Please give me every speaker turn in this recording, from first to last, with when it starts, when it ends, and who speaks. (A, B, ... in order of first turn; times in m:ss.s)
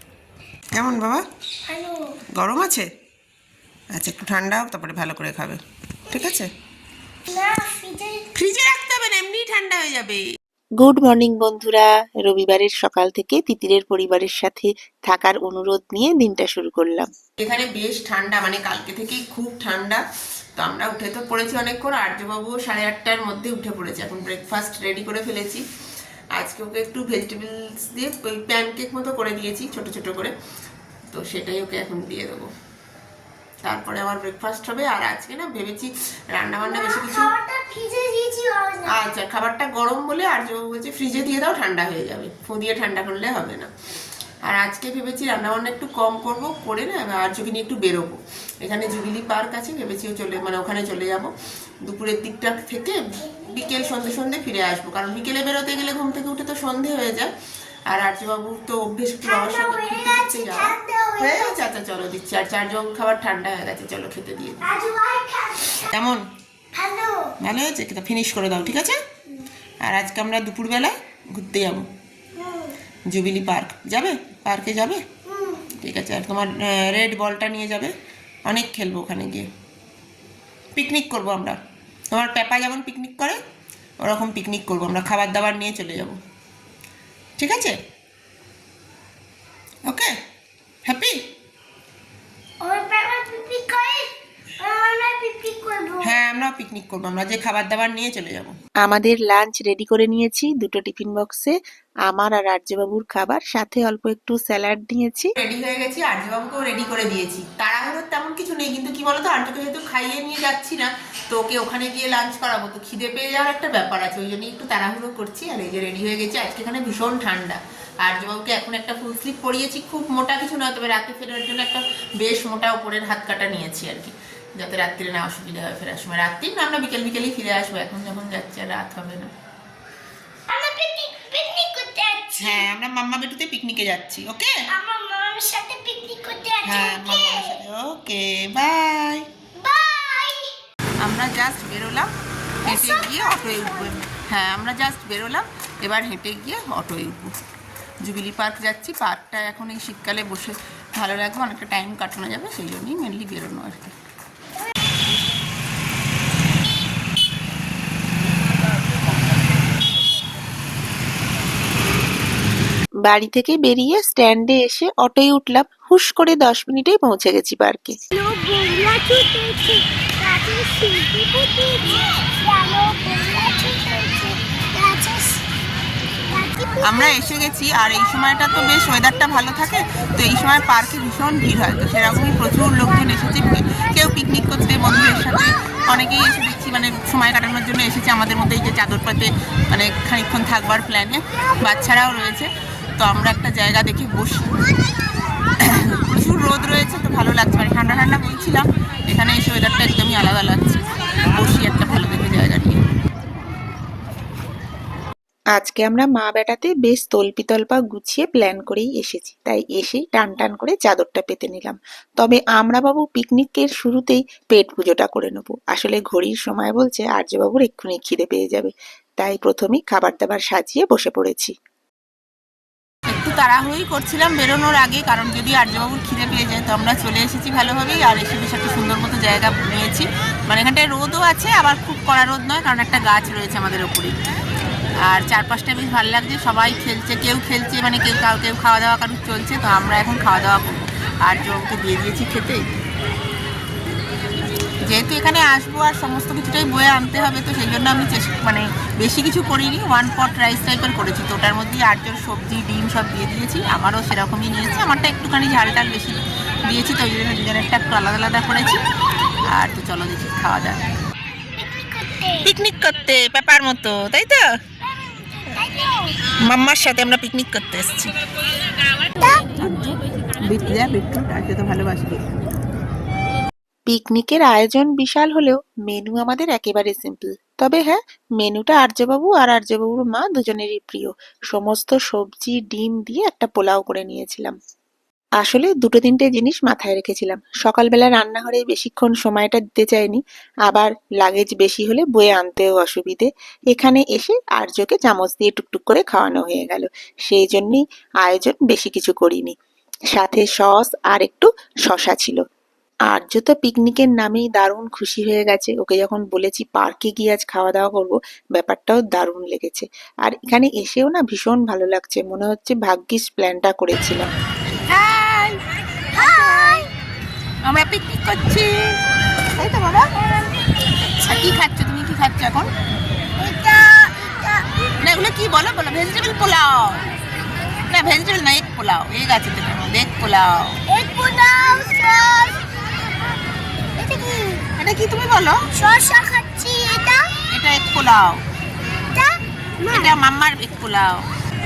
0:00.7-0:01.2 A
0:01.7-0:02.2 B
0:02.3-0:02.9 A
0:03.9-0:06.5 A
0:07.3-0:08.3 B
0:08.4-0:10.3 A
0:10.8-0:17.1 C
0:17.4-0:20.0 A
0:20.6-0:25.6 A
0:26.3-0:30.3 A
0:31.1-0:32.5 A
0:33.6-0:37.3 A
0:36.6-0:39.0 B
0:38.9-0:43.7 A
0:44.4-0:51.3 A
0:51.8-0:57.3 A
0:53.2-0:54.1 B
0:57.9-1:04.7 A
0:59.2-1:01.6 B
1:04.6-1:05.8 B
1:05.8-1:06.2 A
1:06.7-1:07.3 B
1:07.4-1:09.0 A
1:09.8-1:11.9 A
1:12.4-1:12.7 B
1:13.1-1:15.0 A
1:15.3-1:15.6 B
1:15.7-1:17.9 A
1:18.5-1:19.5 A
1:20.8-1:21.6 A
1:22.1-1:23.4 A
1:24.0-1:26.2 A
1:27.4-1:27.8 A
1:29.9-1:30.1 A
1:30.8-1:31.2 A
1:32.6-1:36.1 B
1:36.0-1:38.5 A
1:38.8-1:45.3 C
1:45.4-2:09.3 A
2:10.5-2:12.7 B
2:12.4-2:14.7 A
2:14.7-2:17.6 B
2:16.6-2:19.3 A
2:19.6-2:20.5 B
2:21.0-2:22.1 A
2:22.6-2:24.0 B
2:22.6-2:27.3 A
2:28.0-2:33.9 A
2:43.0-2:48.0 C
2:48.1-2:55.4 B
2:56.3-2:57.2 B
2:56.8-3:14.6 A
3:15.6-3:22.8 A
3:25.5-3:41.5 C
3:43.1-3:54.2 A
3:55.0-4:02.8 A
4:04.9-4:18.8 A
4:19.5-4:20.9 A
4:21.5-4:22.5 B
4:22.4-4:24.5 A
4:24.9-4:26.2 B
4:26.4-4:28.1 A
4:29.2-4:29.4 B
4:29.5-4:32.4 A
4:33.9-4:44.6 C
4:45.4-4:59.6 C
5:00.1-5:02.4 C
5:03.1-5:14.3 C
5:14.9-5:15.6 A
5:16.1-5:16.9 B
5:16.2-5:16.8 A
5:17.6-5:19.0 A
5:19.6-5:20.1 A
5:20.2-5:21.6 B
5:21.2-5:22.7 A
5:23.4-5:24.7 B
5:25.0-5:27.1 A
5:27.9-5:30.8 A
5:30.9-5:32.6 B
5:34.0-5:34.6 B
5:34.8-5:35.6 A
5:35.7-5:37.3 B
5:37.5-5:38.4 A
5:39.1-5:40.1 B
5:39.9-5:41.2 A